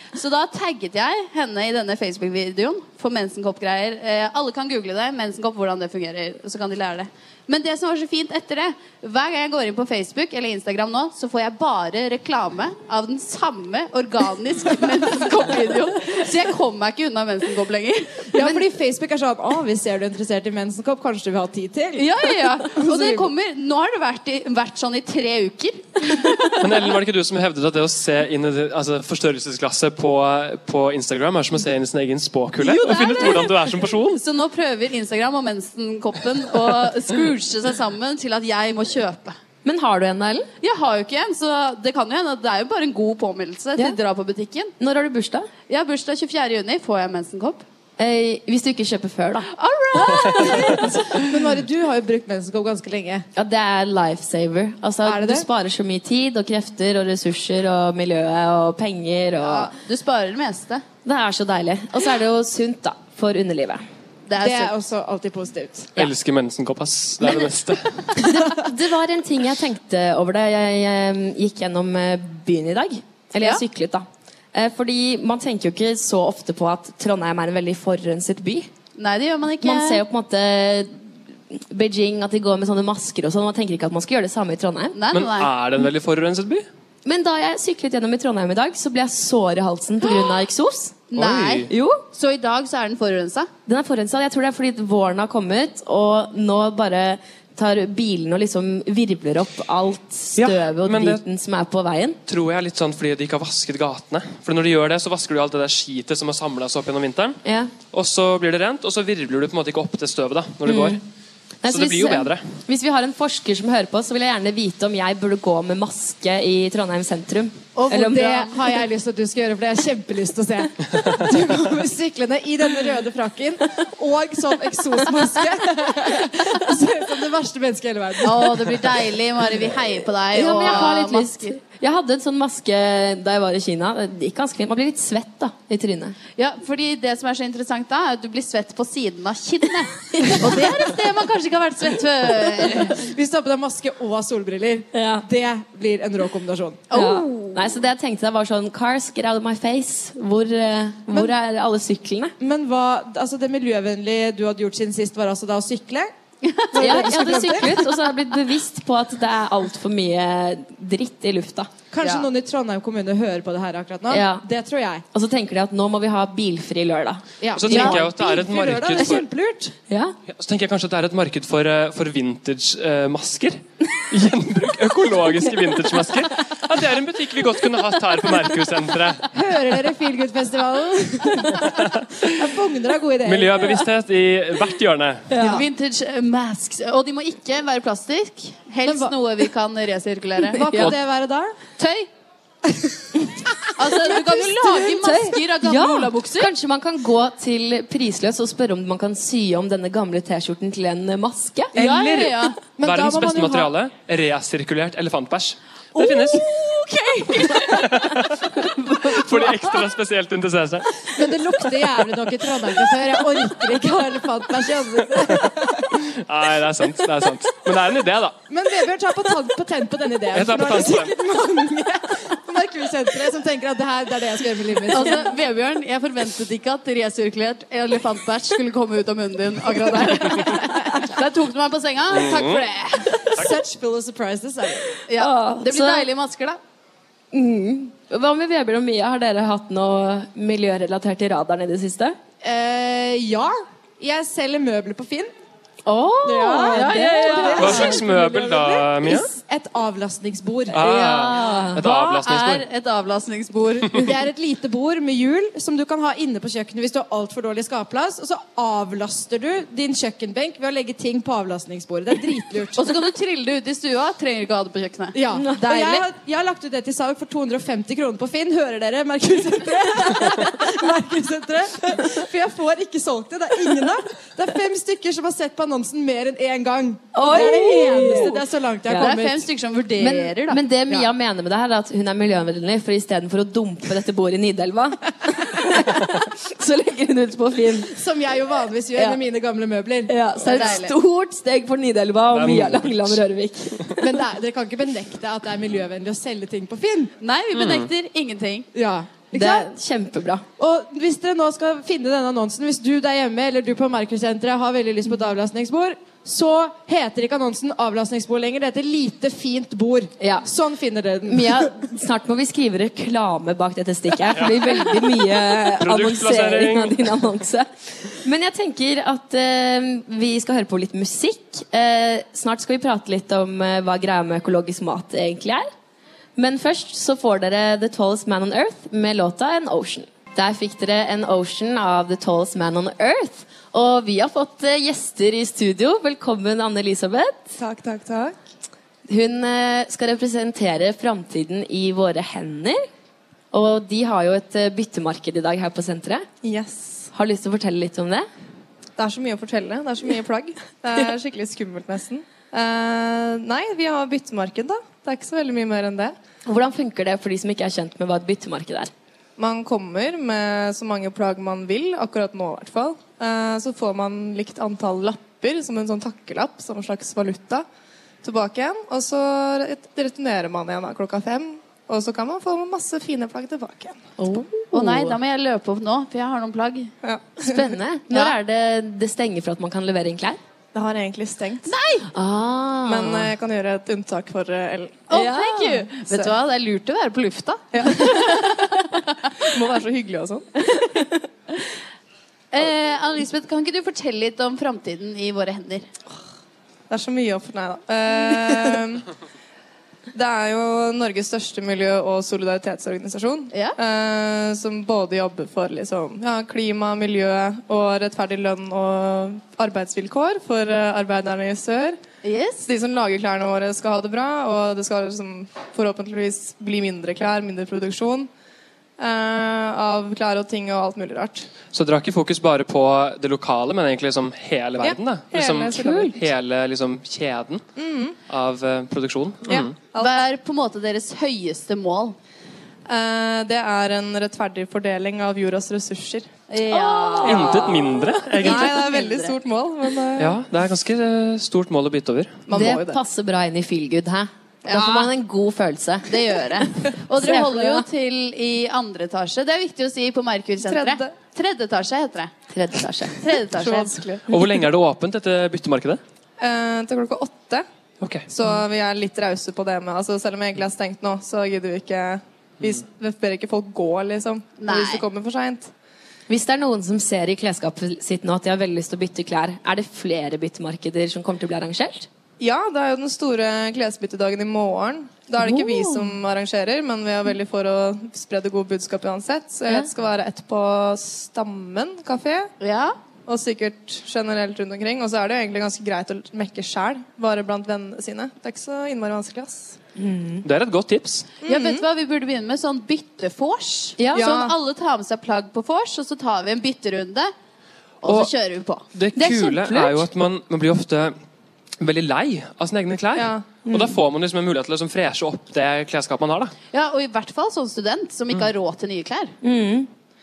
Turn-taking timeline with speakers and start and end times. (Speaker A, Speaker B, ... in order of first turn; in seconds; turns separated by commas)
Speaker A: 0.1-18.6, Speaker B: 18.3-22.1, Speaker A: 22.0-26.6, Speaker B: 22.6-23.3, Speaker C: 26.6-34.2, Speaker A: 32.6-39.4, Speaker D: 39.6-40.5, Speaker A: 40.6-44.7, Speaker D: 44.8-45.5, Speaker A: 45.7-47.6, Speaker D: 48.0-49.5, Speaker A: 49.5-51.0, Speaker B: 50.2-53.2, Speaker D: 53.4-59.7, Speaker B: 55.0-55.5, Speaker A: 59.4-60.8, Speaker D: 61.0-63.8, Speaker A: 64.3-64.7, Speaker B: 64.4-65.9, Speaker C: 66.0-68.1, Speaker D: 68.2-78.7, Speaker A: 79.0-80.0, Speaker D: 79.6-85.0, Speaker A: 84.9-85.5, Speaker C: 85.1-86.7, Speaker D: 87.0-91.0, Speaker A: 91.1-93.5, Speaker C: 91.2-91.7, Speaker D: 91.7-92.0, Speaker D: 93.7-102.2, Speaker C: 100.4-101.2, Speaker C: 102.3-111.0, Speaker D: 107.5-107.7, Speaker D: 110.7-111.0, Speaker D: 111.6-118.3, Speaker C: 111.7-112.4, Speaker A: 117.8-118.6, Speaker B: 117.9-129.0, Speaker A: 128.2-131.6, Speaker D: 130.3-136.2, Speaker A: 136.4-143.1, Speaker D: 140.1-140.4, Speaker B: 142.9-146.9, Speaker D: 144.9-145.2, Speaker A: 146.9-147.7, Speaker D: 146.9-152.3, Speaker B: 152.4-156.1, Speaker A: 156.4-157.0, Speaker B: 156.7-158.0, Speaker D: 156.8-161.7, Speaker B: 161.9-165.0, Speaker A: 162.0-162.3, Speaker D: 164.1-164.4, Speaker D: 165.1-167.9, Speaker B: 167.4-169.7, Speaker C: 167.6-169.3, Speaker A: 167.7-168.0, Speaker D: 169.9-170.2, Speaker C: 170.3-179.3, Speaker B: 179.3-183.8, Speaker C: 183.2-185.3, Speaker D: 185.3-185.6, Speaker B: 185.4-185.7, Speaker A: 185.4-190.9, Speaker B: 188.8-189.2, Speaker B: 190.5-191.6, Speaker A: 191.8-192.1, Speaker B: 193.6-194.4, Speaker A: 193.8-196.5, Speaker D: 194.9-201.7, Speaker A: 201.7-202.6, Speaker C: 201.8-206.5, Speaker B: 202.7-203.7, Speaker A: 206.7-207.6, Speaker C: 207.4-211.1, Speaker B: 211.2-215.9, Speaker C: 216.0-218.4, Speaker B: 218.5-225.3, Speaker C: 220.3-221.2, Speaker A: 224.9-233.4, Speaker C: 232.1-232.6, Speaker B: 233.3-235.0, Speaker A: 235.1-236.6, Speaker D: 235.2-236.1, Speaker D: 237.3-242.2, Speaker B: 242.4-245.3, Speaker D: 245.9-247.9, Speaker B: 246.2-251.2, Speaker A: 246.7-248.0, Speaker C: 247.6-249.3, Speaker C: 250.7-252.7, Speaker D: 250.8-251.8, Speaker A: 251.3-254.2, Speaker B: 254.0-262.9, Speaker A: 262.8-266.0, Speaker B: 265.1-279.5, Speaker D: 265.4-265.6, Speaker D: 277.1-279.1, Speaker A: 279.0-280.6, Speaker D: 280.0-287.9, Speaker B: 287.9-290.1, Speaker D: 290.1-294.0, Speaker A: 290.4-290.9, Speaker C: 292.3-293.2, Speaker B: 294.0-297.1, Speaker A: 297.2-298.7, Speaker C: 297.5-297.9, Speaker B: 298.7-299.7, Speaker D: 299.3-300.4, Speaker B: 300.6-311.7, Speaker D: 310.2-310.5, Speaker D: 311.3-325.7, Speaker C: 314.4-314.6, Speaker C: 315.8-317.2, Speaker D: 326.4-337.6, Speaker E: 337.6-338.4, Speaker D: 339.1-342.8, Speaker D: 343.5-346.3, Speaker E: 346.4-347.1, Speaker D: 347.1-348.3, Speaker E: 349.0-356.1, Speaker D: 356.5-358.9, Speaker E: 359.4-367.7, Speaker E: 368.2-374.1, Speaker D: 374.2-375.2, Speaker A: 374.7-376.9, Speaker E: 377.0-377.7, Speaker D: 377.4-380.4, Speaker A: 378.1-378.4, Speaker E: 380.7-381.7, Speaker A: 381.7-382.1, Speaker D: 382.1-383.3, Speaker E: 382.9-385.1, Speaker A: 385.1-389.3, Speaker D: 385.1-385.8, Speaker E: 387.7-388.6, Speaker E: 389.4-390.5, Speaker A: 392.5-395.9, Speaker E: 396.9-399.1, Speaker E: 400.1-412.0, Speaker A: 412.2-412.7, Speaker E: 412.6-418.3, Speaker E: 419.0-421.5, Speaker C: 421.7-427.6, Speaker E: 424.8-426.3, Speaker E: 427.8-428.2, Speaker C: 428.3-429.8, Speaker E: 429.5-430.2, Speaker A: 430.0-432.2, Speaker E: 432.9-436.3, Speaker A: 436.5-439.4, Speaker D: 436.7-437.8, Speaker C: 437.2-438.7, Speaker E: 438.4-440.4, Speaker C: 440.2-442.4, Speaker E: 442.5-443.0, Speaker D: 442.5-446.5, Speaker A: 444.7-445.1, Speaker A: 446.1-452.3, Speaker D: 447.2-447.8, Speaker E: 450.6-451.1, Speaker D: 452.5-453.2, Speaker A: 453.2-454.0, Speaker E: 453.5-454.2, Speaker C: 454.3-456.0, Speaker E: 456.4-457.7, Speaker C: 458.0-458.3, Speaker E: 458.3-465.7, Speaker A: 464.6-465.0, Speaker D: 466.3-472.1, Speaker E: 472.4-482.5, Speaker D: 475.4-476.1, Speaker A: 482.6-483.0, Speaker E: 483.3-489.8, Speaker D: 490.0-490.4, Speaker C: 490.4-491.3, Speaker E: 491.4-491.9, Speaker A: 491.4-497.3, Speaker D: 494.0-494.3, Speaker E: 494.1-494.6, Speaker A: 498.0-498.8, Speaker C: 498.0-498.3, Speaker C: 498.9-501.1, Speaker D: 499.1-500.1, Speaker C: 501.8-506.5, Speaker E: 503.1-503.4, Speaker D: 503.7-503.9, Speaker A: 506.7-509.4, Speaker D: 509.4-509.9